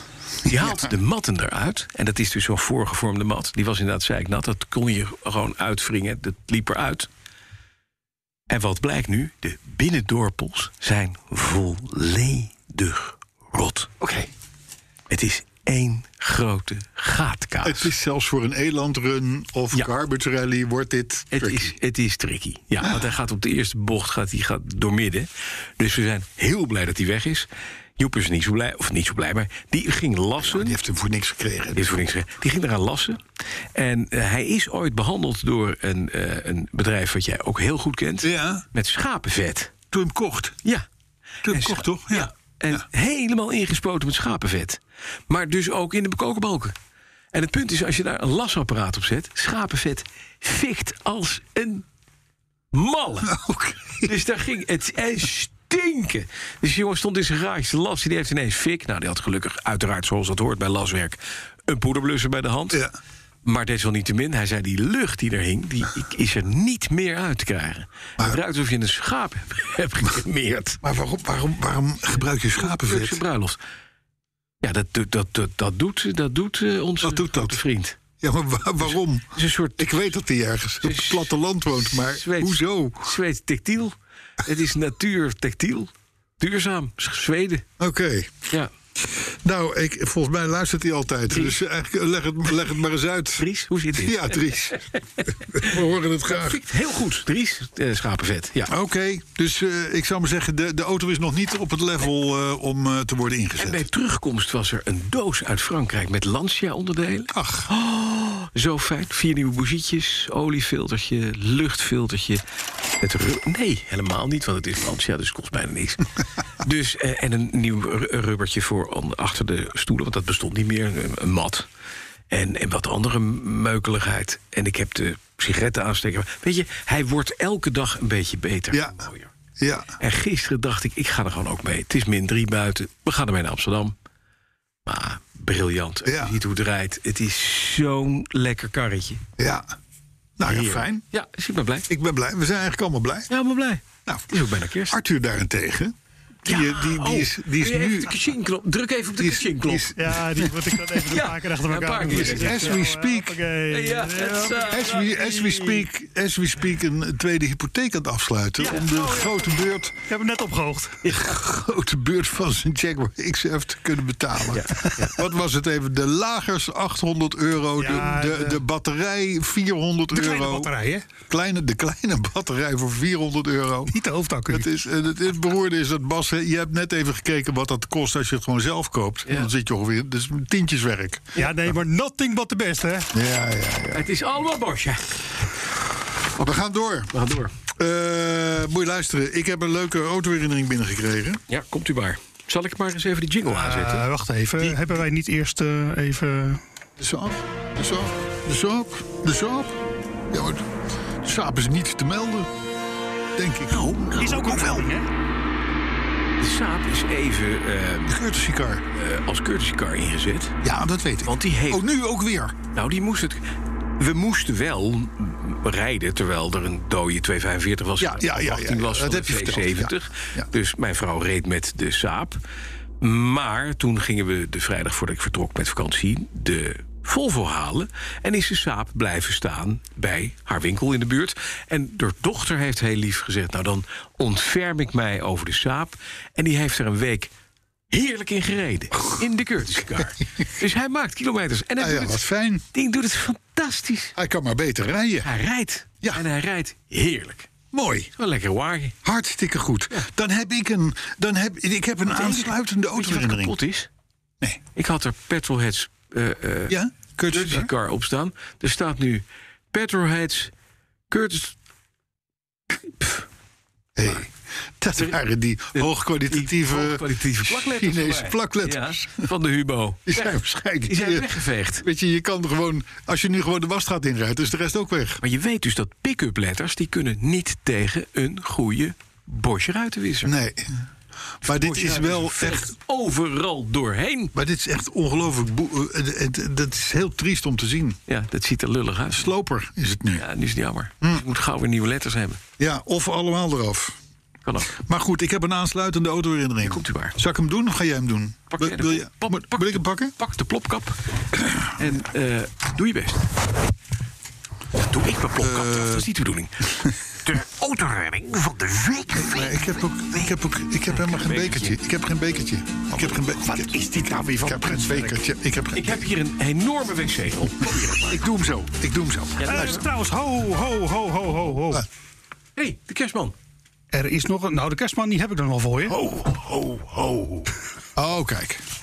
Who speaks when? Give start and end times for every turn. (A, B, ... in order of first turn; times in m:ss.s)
0:00.4-0:07.1 A
0:00.5-0:00.8 B
0:08.5-0:14.2 A
0:15.1-0:17.9 A
0:17.6-0:21.7 B
0:21.3-0:30.8 A
0:30.4-0:31.9 B
0:31.7-0:33.2 A
0:33.7-0:39.7 A
0:38.2-0:38.6 B
0:39.9-0:40.6 B
0:41.4-0:42.8 B
0:41.4-0:46.8 A
0:47.3-0:51.8 A
0:52.7-0:53.4 A
0:53.2-0:54.1 B
0:54.0-1:02.8 A
1:03.4-1:10.8 A
1:10.8-1:13.2 B
1:12.5-1:13.6 A
1:14.6-1:18.0 A
1:17.0-1:17.6 B
1:18.2-1:23.1 B
1:18.8-1:20.1 A
1:20.8-1:27.6 A
1:27.8-1:28.4 B
1:29.0-1:36.6 B
1:31.3-1:31.6 A
1:33.4-1:34.8 A
1:36.2-1:38.7 A
1:38.7-1:43.8 B
1:43.6-1:52.4 A
1:47.3-1:47.7 B
1:53.0-1:56.1 A
1:56.6-2:01.7 A
2:02.3-2:09.3 A
2:08.7-2:09.0 B
2:09.6-2:10.0 B
2:10.0-2:13.9 A
2:14.8-2:19.2 A
2:16.0-2:16.4 B
2:19.4-2:19.7 B
2:20.4-2:21.0 B
2:20.4-2:21.9 A
2:21.9-2:23.3 B
2:23.3-2:25.0 A
2:24.9-2:28.2 B
2:26.4-2:29.9 A
2:29.2-2:30.7 B
2:29.9-2:34.8 C
2:31.0-2:32.8 A
2:32.1-2:33.4 B
2:33.7-2:35.8 A
2:34.7-2:40.0 B
2:38.6-2:38.9 A
2:40.1-2:41.0 C
2:41.0-2:54.0 B
2:41.1-2:41.3 A
2:44.5-2:45.2 A
2:47.8-2:48.6 C
2:50.1-2:51.1 C
2:53.9-2:54.7 C
2:54.5-3:01.5 B
3:01.4-3:03.1 C
3:03.1-3:04.1 B
3:03.9-3:05.3 A
3:06.4-3:07.1 B
3:07.1-3:07.5 A
3:07.7-3:11.4 B
3:11.5-3:14.1 A
3:13.5-3:16.6 C
3:17.0-3:19.8 B
3:20.3-3:20.7 B
3:21.2-3:22.5 B
3:23.4-3:24.9 B
3:23.7-3:24.7 A
3:24.2-3:25.1 C
3:26.4-3:28.2 A
3:28.1-3:28.8 B
3:28.9-3:30.6 A
3:30.6-3:32.6 B
3:31.2-3:31.8 A
3:32.7-3:33.4 A
3:34.0-3:42.4 A
3:38.0-3:40.5 B
3:43.0-3:57.3 A
3:57.9-4:04.1 A
4:01.8-4:02.6 B
4:04.2-4:05.3 B
4:05.2-4:07.5 A
4:07.7-4:08.1 B
4:08.2-4:09.0 A
4:09.0-4:13.6 B
4:12.1-4:13.9 A
4:14.8-4:20.5 A
4:16.7-4:17.7 B
4:21.1-4:21.5 A
4:24.0-4:29.3 B
4:25.7-4:31.8 A
4:30.0-4:35.2 B
4:35.2-4:40.3 A
4:40.2-4:40.8 B
4:41.4-4:42.7 B
4:41.4-4:44.3 A
4:44.3-4:48.0 B
4:48.1-4:49.3 A
4:49.1-4:50.2 B
4:50.1-4:52.4 A
4:52.6-4:54.0 B
4:54.4-4:54.7 A
4:54.7-5:00.1 B
4:56.6-4:57.2 A
4:58.5-5:01.0 A
5:01.4-5:01.7 B
5:01.6-5:03.3 A
5:04.8-5:09.6 A
5:05.4-5:06.1 B
5:09.1-5:16.0 B
5:10.9-5:11.8 A
5:12.9-5:13.7 A
5:14.4-5:15.1 C
5:15.7-5:18.2 A
5:17.6-5:19.8 B
5:19.4-5:19.8 A
5:19.4-5:21.8 C
5:22.6-5:23.3 A
5:23.9-5:26.0 C
5:25.9-5:27.5 A
5:28.0-5:28.6 B